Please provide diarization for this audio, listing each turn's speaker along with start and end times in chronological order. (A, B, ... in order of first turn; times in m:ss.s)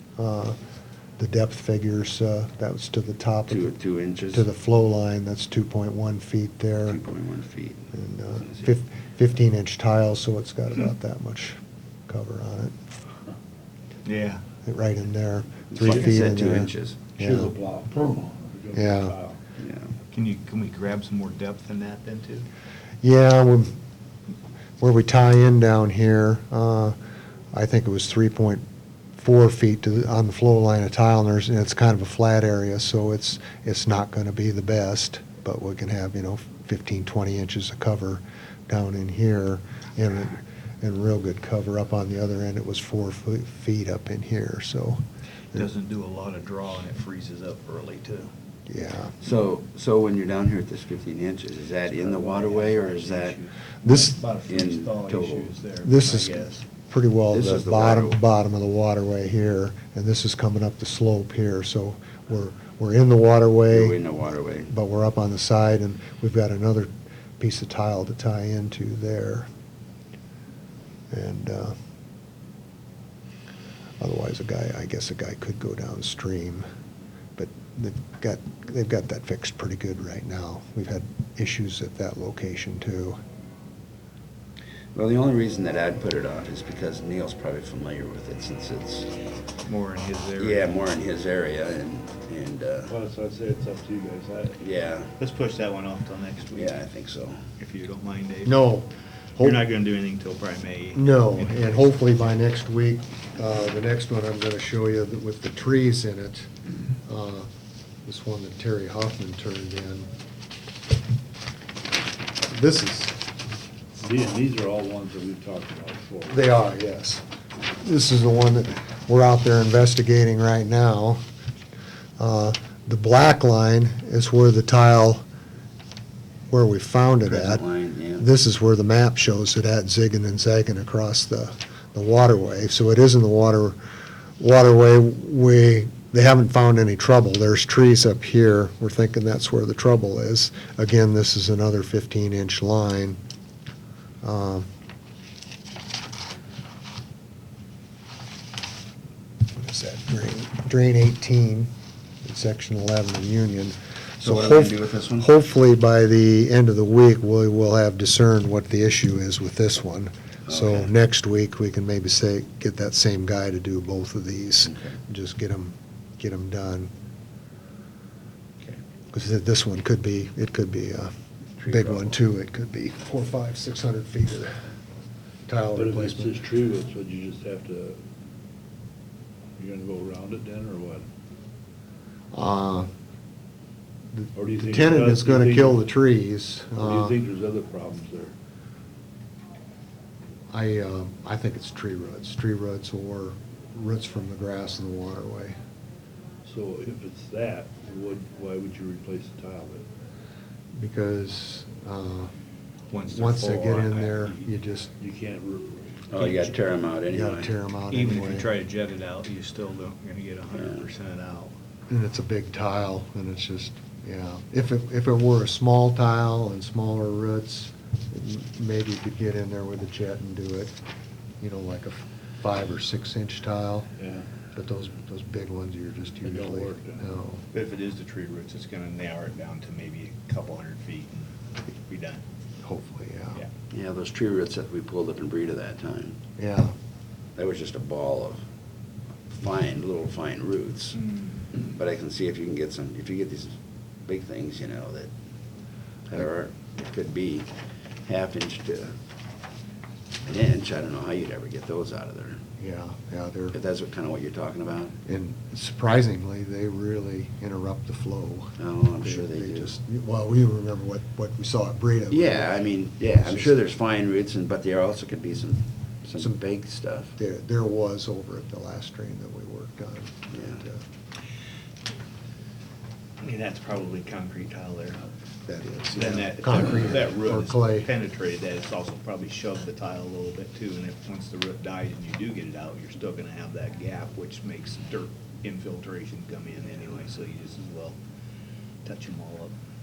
0:00.2-0:00.6 A
0:01.2-0:03.7 A
0:03.5-0:04.5 B
0:04.3-0:07.0 A
0:06.9-0:08.7 B
0:07.9-0:12.8 A
0:14.0-0:14.4 C
0:14.6-0:17.5 A
0:15.7-0:17.2 B
0:17.2-0:19.4 D
0:18.7-0:19.2 A
0:19.6-0:19.9 B
0:20.1-0:22.5 C
0:23.0-0:23.8 A
0:24.8-0:27.0 A
0:27.5-0:28.6 A
0:29.2-0:45.0 A
0:45.5-0:48.3 C
0:48.7-0:49.1 A
0:49.2-0:53.4 B
0:51.9-0:56.6 C
0:53.8-0:54.2 A
0:54.5-0:55.5 B
0:55.8-1:04.0 A
0:57.3-0:58.2 B
1:03.7-1:04.7 B
1:04.7-1:09.5 A
1:11.1-1:11.8 A
1:14.0-1:16.6 A
1:17.4-1:23.2 A
1:25.0-1:29.1 B
1:29.6-1:30.8 C
1:30.4-1:32.9 B
1:32.9-1:34.6 D
1:34.6-1:35.1 B
1:35.2-1:36.8 C
1:36.5-1:37.4 B
1:37.6-1:38.6 C
1:38.5-1:39.6 A
1:39.4-1:41.8 C
1:41.0-1:46.5 A
1:47.0-1:47.5 A
1:48.0-1:50.1 A
1:52.5-1:53.2 A
1:54.0-1:56.4 D
1:56.3-1:57.2 A
1:57.8-2:01.2 A
2:02.2-2:05.2 A
2:06.5-2:07.6 A
2:07.2-2:08.3 B
2:08.2-2:13.8 A
2:14.4-2:23.2 A
2:24.2-2:24.7 A
2:29.5-2:31.7 A
2:32.2-2:46.9 A
2:34.2-2:35.3 B
2:40.5-2:40.9 B
2:49.1-2:54.6 A
2:51.6-2:52.2 B
2:55.5-2:56.4 A
2:55.8-2:58.0 D
2:59.6-3:01.1 D
3:02.3-3:02.9 A
3:04.1-3:07.2 A
3:04.4-3:05.8 D
3:06.8-3:08.3 D
3:10.5-3:15.6 A
3:16.4-3:19.9 D
3:20.8-3:22.3 A
3:22.9-3:24.4 C
3:23.1-3:24.9 A
3:25.0-3:26.3 D
3:26.1-3:27.5 B
3:27.1-3:28.5 A
3:27.9-3:31.5 C
3:30.6-3:30.8 B
3:31.9-3:40.7 A
3:41.4-3:43.9 A
3:44.0-3:44.3 D
3:44.6-3:47.4 A
3:46.2-3:47.1 D
3:47.5-3:52.2 C
3:52.6-3:53.4 A
3:53.7-3:56.2 B
3:56.4-3:56.7 A
3:57.4-3:58.4 B
3:59.3-4:01.0 B
4:01.5-4:05.1 B
4:06.1-4:07.5 B
4:08.0-4:09.0 B
4:10.2-4:12.4 B
4:12.6-4:13.6 A
4:13.5-4:15.0 B
4:15.0-4:23.6 A
4:18.6-4:19.8 B
4:22.1-4:27.2 B
4:27.2-4:30.8 A
4:30.3-4:30.6 B
4:33.2-4:35.0 C
4:35.5-4:37.9 A
4:35.9-4:48.0 C
4:48.8-4:49.5 C